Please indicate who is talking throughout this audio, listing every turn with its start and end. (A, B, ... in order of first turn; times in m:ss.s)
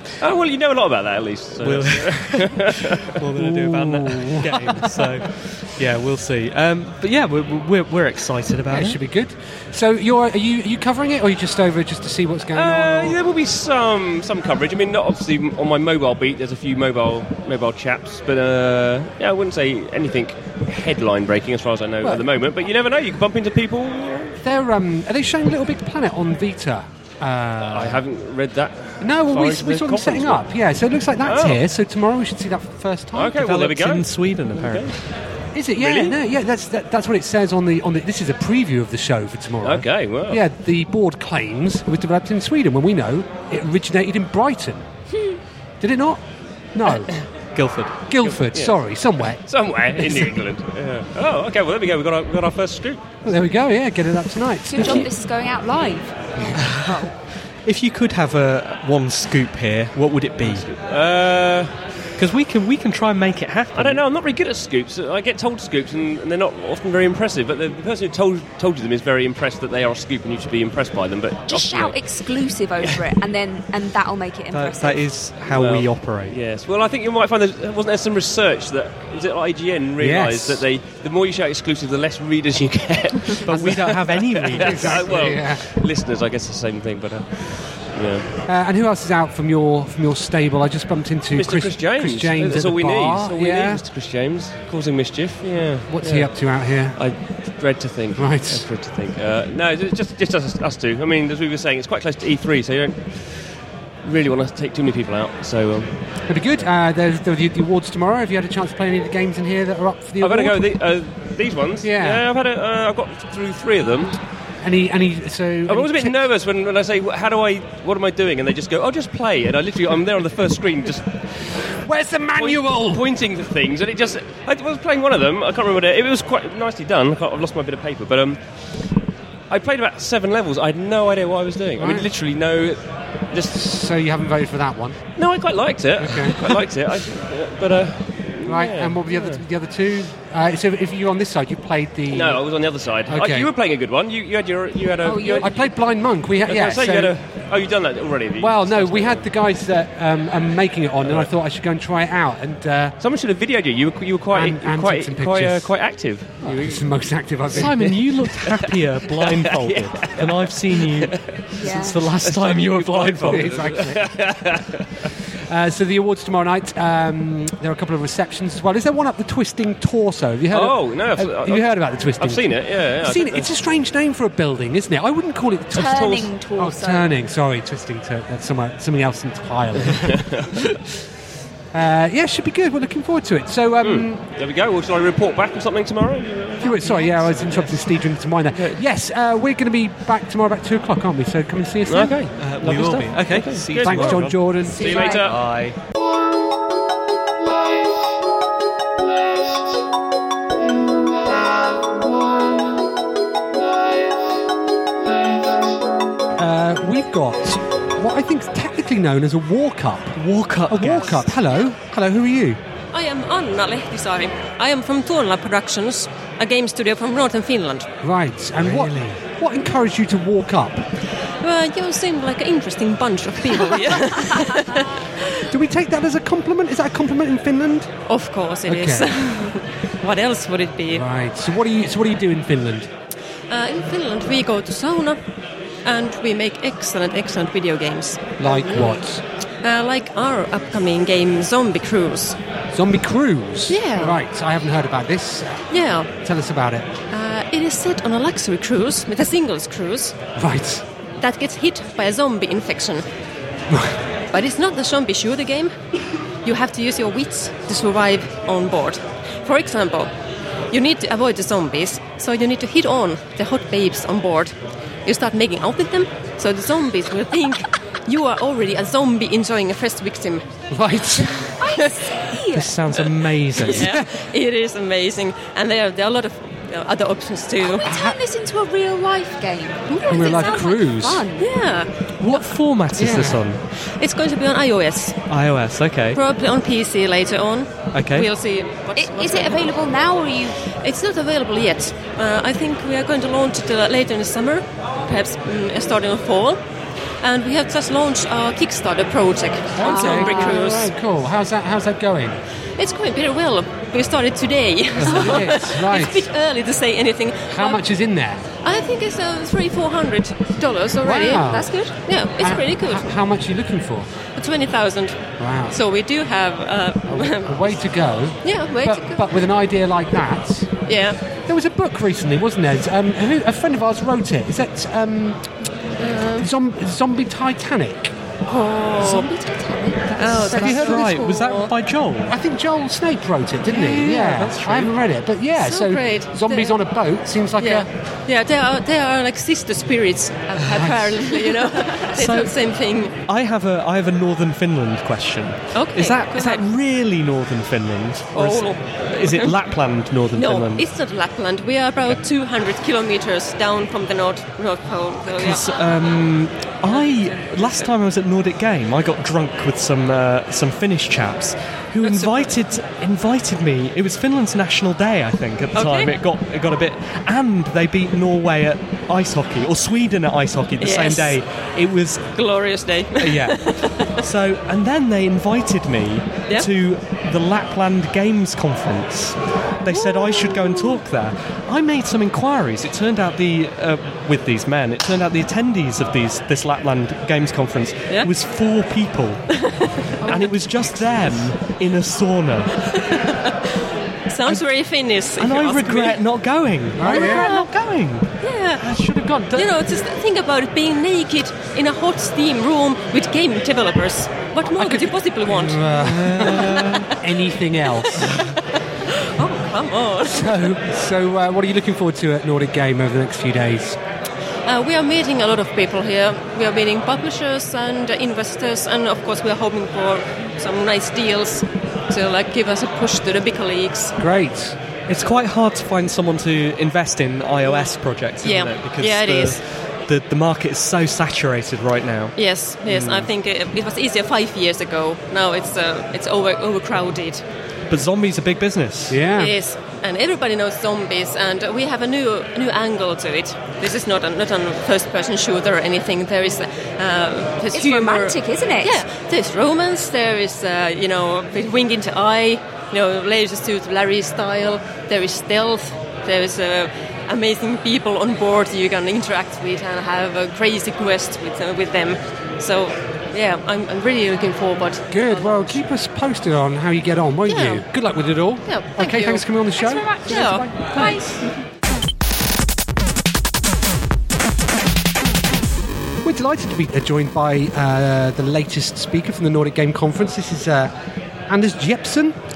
0:00.2-0:03.1 A
0:01.6-0:09.0 B
0:03.4-0:04.9 C
0:08.7-0:13.2 C
0:12.5-0:24.4 A
0:24.4-0:28.0 C
0:27.7-0:30.4 A
0:29.0-0:33.4 C
0:31.2-0:31.6 A
0:33.1-0:34.9 A
0:33.3-0:34.9 B
0:35.5-0:44.9 C
0:35.8-0:36.2 A
0:39.6-0:40.4 A
0:45.8-0:46.2 C
0:46.7-0:47.1 C
0:47.5-0:48.0 B
0:48.1-0:49.4 C
0:48.2-0:48.8 A
0:49.4-0:53.2 A
0:50.0-0:50.3 C
0:53.2-0:55.1 C
0:54.7-0:57.1 D
0:57.6-1:00.7 B
1:00.4-1:01.7 A
1:02.2-1:04.0 B
1:03.7-1:12.0 A
1:11.5-1:15.0 D
1:14.5-1:16.4 B
1:15.5-1:28.2 A
1:20.0-1:20.6 C
1:23.4-1:25.2 B
1:23.5-1:23.8 C
1:24.4-1:25.6 C
1:28.5-1:33.8 C
1:31.3-1:36.4 A
1:35.9-1:37.0 C
1:36.9-1:43.5 A
1:38.2-1:38.6 C
1:44.0-1:46.7 A
1:46.3-1:50.6 C
1:50.2-1:54.2 A
1:51.8-1:52.2 C
1:54.6-1:56.3 C
1:55.6-2:01.1 A
2:01.8-2:03.1 C
2:02.3-2:08.4 A
2:09.5-2:13.5 A
2:11.8-2:12.1 C
2:13.5-2:15.0 C
2:15.2-2:19.4 A
2:16.0-2:16.6 C
2:18.4-2:22.5 C
2:22.1-2:25.8 A
2:23.1-2:23.5 C
2:25.0-2:25.5 D
2:25.2-2:27.1 C
2:26.4-2:29.3 A
2:28.4-2:33.0 C
2:33.0-2:36.9 A
2:34.3-2:35.8 C
2:36.4-2:37.9 C
2:37.5-2:41.4 A
2:37.5-2:43.6 B
2:41.6-2:42.0 D
2:42.2-2:45.1 A
2:43.2-2:44.1 C
2:45.5-3:00.7 C
2:50.5-2:53.6 A
2:55.7-2:57.1 D
2:55.8-2:56.2 A
2:59.9-3:00.6 A
3:01.7-3:04.2 C
3:03.8-3:07.8 A
3:06.6-3:12.2 C
3:06.6-3:07.0 D
3:08.4-3:08.8 A
3:11.8-3:15.6 A
3:12.4-3:14.6 B
3:13.8-3:15.3 C
3:14.6-3:15.3 D
3:15.2-3:15.7 B
3:26.4-3:32.6 C
3:30.2-3:31.3 B
3:32.9-3:37.9 E
3:38.0-3:40.8 C
3:38.6-3:39.1 B
3:41.4-3:45.1 E
3:45.5-3:47.9 C
3:48.1-3:51.0 E
3:48.6-3:49.4 C
3:50.9-3:52.9 C
3:53.5-3:55.2 E
3:55.8-3:59.0 E
3:58.4-3:59.2 C
3:59.6-4:02.4 E
4:02.7-4:06.9 C
4:03.7-4:04.2 E
4:05.7-4:06.1 E
4:07.1-4:10.1 E
4:10.4-4:10.8 C
4:11.2-4:13.0 E
4:13.7-4:13.9 C
4:14.3-4:15.7 E
4:16.4-4:20.1 E
4:20.7-4:30.5 E
4:30.7-4:31.5 C
4:31.4-4:32.8 D
4:32.5-4:34.0 B
4:33.6-4:37.9 E
4:33.8-4:34.1 C
4:37.6-4:41.5 D
4:37.8-4:38.2 C
4:39.9-4:40.7 E
4:40.1-4:41.2 C
4:41.4-4:42.5 E
4:42.2-4:43.6 B
4:42.9-4:43.4 C
4:43.7-4:45.2 E
4:45.3-4:46.2 B
4:46.1-4:49.7 E
4:47.9-4:48.3 B
4:49.0-4:50.6 D
4:50.8-4:56.6 E
4:57.2-5:00.9 E
4:59.8-5:02.4 C
4:59.8-5:00.6 D
5:02.8-5:07.8 E
5:05.0-5:06.3 C
5:07.5-5:08.4 C
5:08.6-5:13.0 E
5:11.0-5:14.1 C
5:11.4-5:11.9 D
5:14.3-5:17.8 E
5:15.4-5:15.8 C
5:17.1-5:20.7 C
5:18.4-5:19.3 E
5:20.9-5:21.2 E
5:21.5-5:25.4 C
5:26.0-5:26.5 E
5:26.4-5:28.1 C
5:28.5-5:29.3 E
5:29.0-5:31.1 D
5:30.1-5:31.7 E
5:30.5-5:32.3 B
5:30.6-5:31.0 C
5:32.3-5:37.9 C
5:33.7-5:34.9 B
5:35.5-5:36.8 E
5:37.6-5:43.1 E
5:42.0-5:42.5 B
5:43.2-5:50.8 B
5:45.7-5:46.6 E
5:48.3-5:49.5 E
5:50.3-5:55.7 E
5:55.3-6:12.2 B
5:56.9-5:57.8 E
6:02.0-6:02.5 E
6:05.7-6:06.2 E
6:10.8-6:11.4 E
6:12.3-6:14.2 E
6:13.2-6:13.6 B
6:14.2-6:29.4 B
6:19.9-6:21.0 E
6:29.5-6:30.7 E
6:30.2-6:32.7 B
6:32.8-6:33.7 E
6:34.3-6:36.2 E
6:35.4-6:39.7 B
6:37.0-6:37.5 C
6:37.0-6:37.7 E
6:38.4-6:38.8 E
6:39.5-6:47.1 E
6:44.7-6:48.2 C
6:46.0-6:47.1 B
6:47.9-6:50.7 E
6:50.3-6:54.0 C
6:54.6-7:04.1 E
7:04.2-7:04.8 C
7:05.1-7:12.3 B
7:08.4-7:09.6 E
7:12.4-7:17.4 E
7:12.9-7:13.2 B
7:17.9-7:19.2 B
7:19.1-7:19.5 C
7:19.3-7:45.8 E
7:27.7-7:29.0 D
7:45.1-7:50.1 C
7:47.5-7:47.8 E
7:48.6-7:49.4 E
7:49.8-7:51.2 D
7:50.2-7:51.2 E
7:56.2-8:00.9 C
8:01.5-8:02.4 C